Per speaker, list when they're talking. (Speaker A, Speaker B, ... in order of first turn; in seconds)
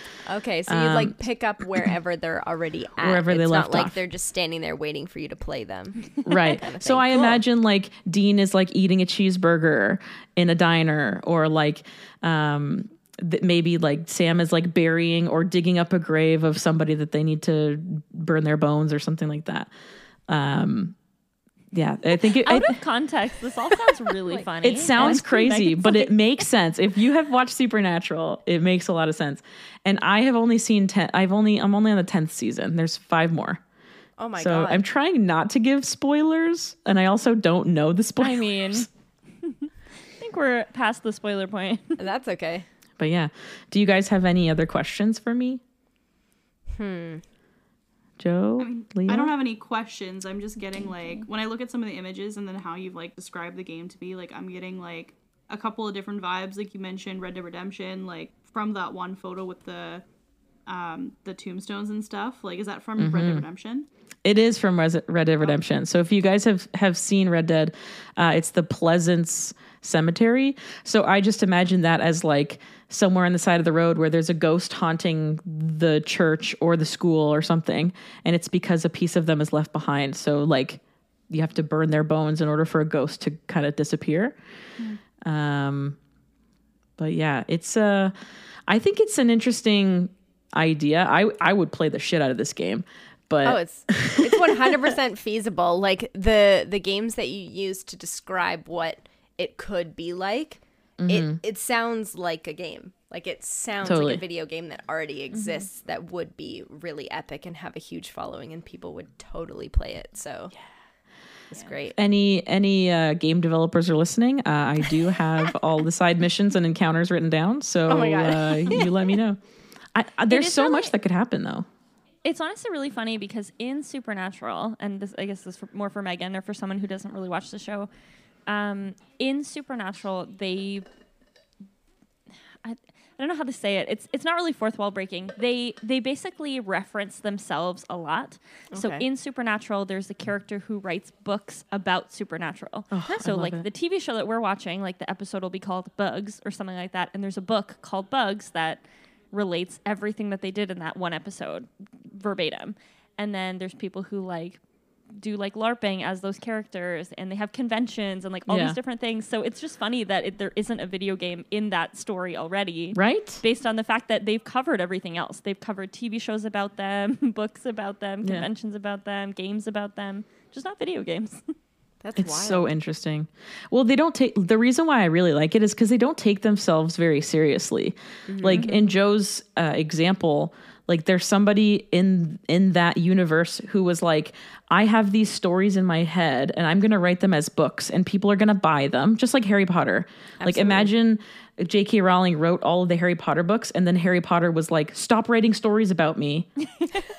Speaker A: 0.2-7.4, 24.3-25.2, 34.2-34.8, 42.0-42.7, 46.7-47.2, 93.4-110.5, 111.5-112.0, 117.9-119.1, 138.7-139.1, 172.0-172.7, 178.3-178.7, 190.4-190.9
Speaker B: 0.7-1.2, 3.0-4.0, 6.2-19.7, 20.3-20.9, 21.7-22.8, 24.6-33.6, 34.4-38.9, 43.0-45.6, 48.2-49.3, 63.0-63.5, 64.2-84.4, 85.3-86.0, 87.0-88.1, 88.7-94.8, 101.0-101.4, 103.8-104.2, 112.0-119.4, 120.0-121.7, 142.9-143.7, 158.5-158.8, 162.9-163.4, 172.2-196.5
Speaker C: 22.4-26.1, 38.2-38.9, 40.2-42.0, 50.8-51.2, 120.3-120.9, 122.2-127.9, 128.5-130.9, 132.6-154.6, 155.1-171.4, 178.5-178.9, 196.8-197.0
Speaker D: 48.6-60.0, 60.7-63.9